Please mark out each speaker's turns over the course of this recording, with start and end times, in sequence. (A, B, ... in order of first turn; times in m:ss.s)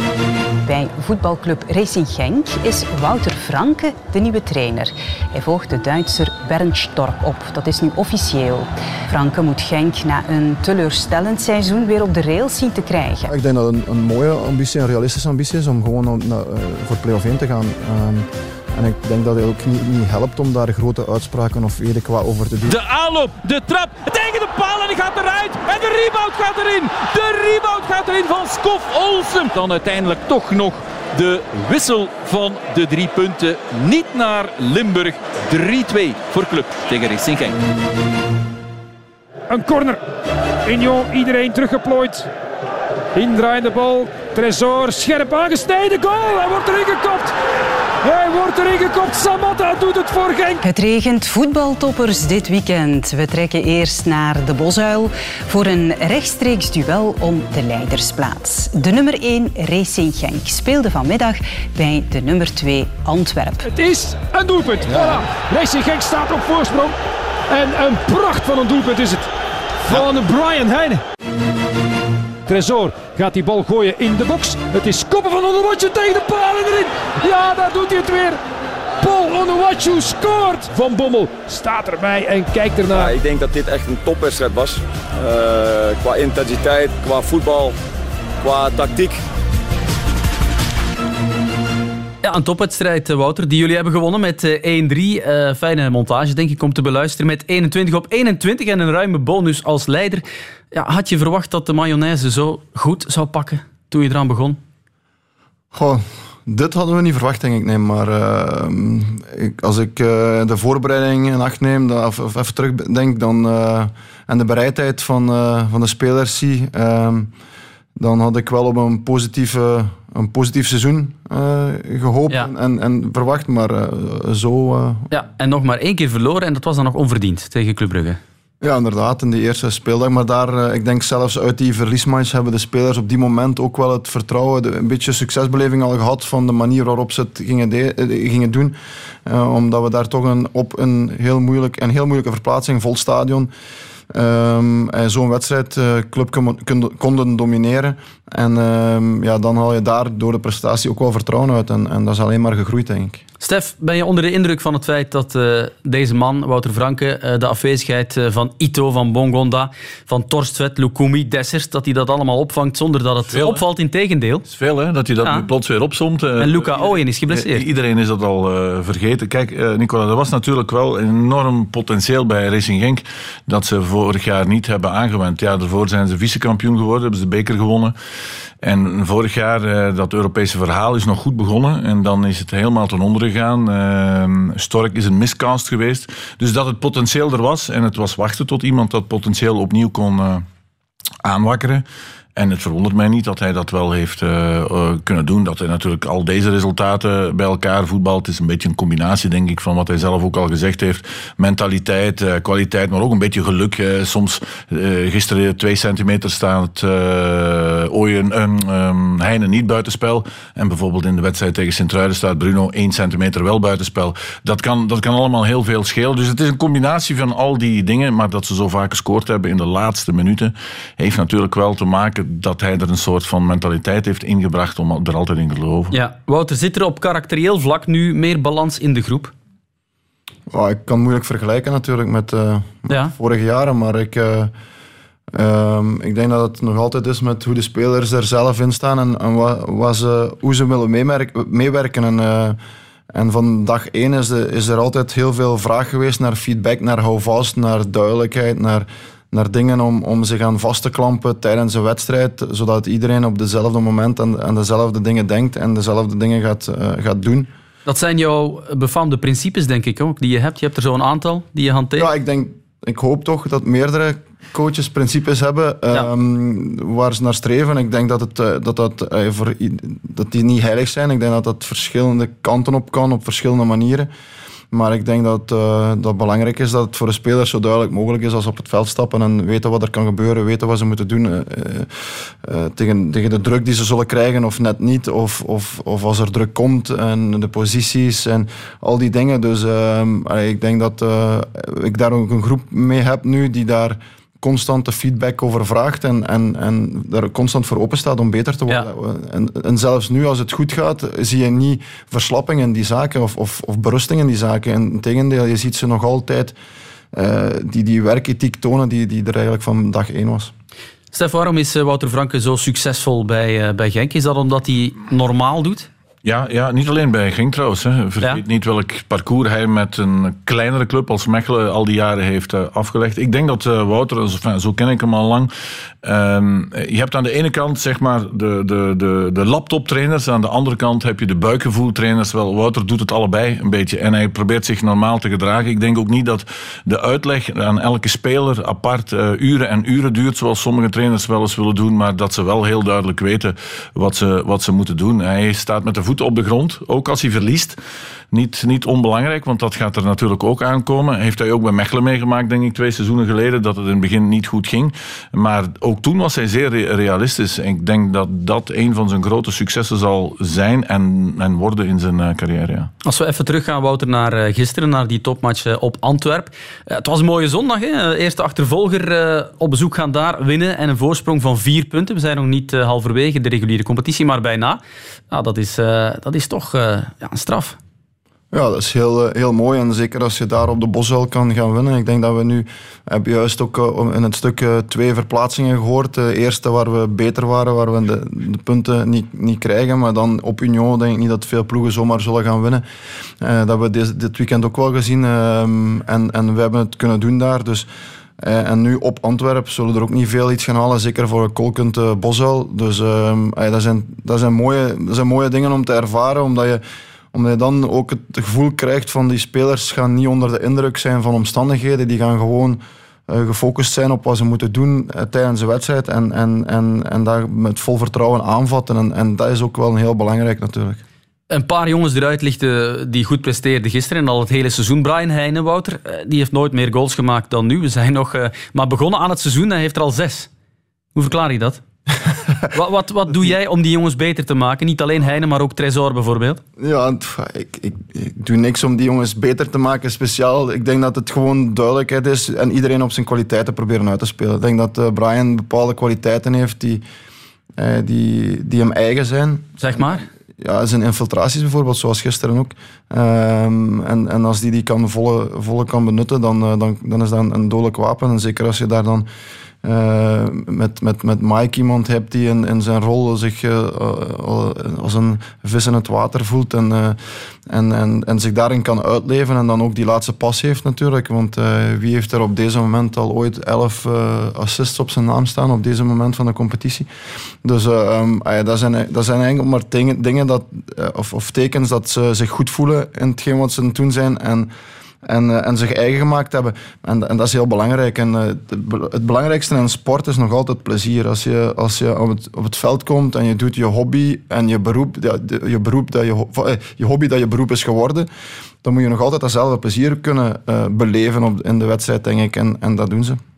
0:00.6-0:13.3 A
0:13.3-0:22.8 B
0:22.7-0:37.6 C
0:39.5-0:40.0 D
0:40.6-0:42.3 D
0:43.2-0:47.3 D
0:48.0-0:50.6 D
0:50.6-1:03.6 A
1:03.6-1:06.9 D
1:07.5-1:09.3 D
1:09.8-1:11.0 D
1:12.5-1:18.4 D
1:19.0-1:23.1 D
1:22.9-1:27.7 E
1:28.4-1:29.2 E
1:32.2-1:44.6 F
1:45.7-1:57.3 B
1:58.0-2:05.1 B
2:05.1-2:08.2 F
2:08.6-2:18.7 B
2:19.2-2:23.5 B
2:24.1-2:33.2 B
2:33.4-2:44.4 F
2:43.3-2:43.6 G
2:44.5-2:57.9 G
2:46.4-2:47.6 F
2:58.6-3:10.4 G
3:11.2-3:11.8 G
3:12.4-3:45.9 G
3:45.9-3:49.3 F
3:50.5-3:54.5 B
3:52.9-3:53.1 F
3:55.3-4:02.6 B
4:03.1-4:17.5 B
4:17.8-4:22.1 F
4:22.0-4:34.1 B
4:34.7-5:06.5 B
5:07.1-5:10.5 B
5:11.1-5:15.9 F
5:16.2-5:25.5 G
5:26.0-5:47.8 G
5:48.3-6:02.9 G
6:03.0-6:14.8 F
6:15.3-6:17.8 F
6:18.5-6:32.8 B
6:33.4-6:37.9 B
6:38.4-6:46.8 B
6:47.3-7:01.0 B
7:01.5-7:10.5 F
7:11.2-7:11.8 F
7:12.7-7:16.6 F
7:16.8-7:27.0 B
7:27.8-7:39.3 B
7:29.8-7:30.3 F
7:39.8-7:47.2 B
7:47.7-7:57.1 B
7:57.6-8:04.7 B
8:05.2-8:18.3 B
8:18.8-8:23.4 B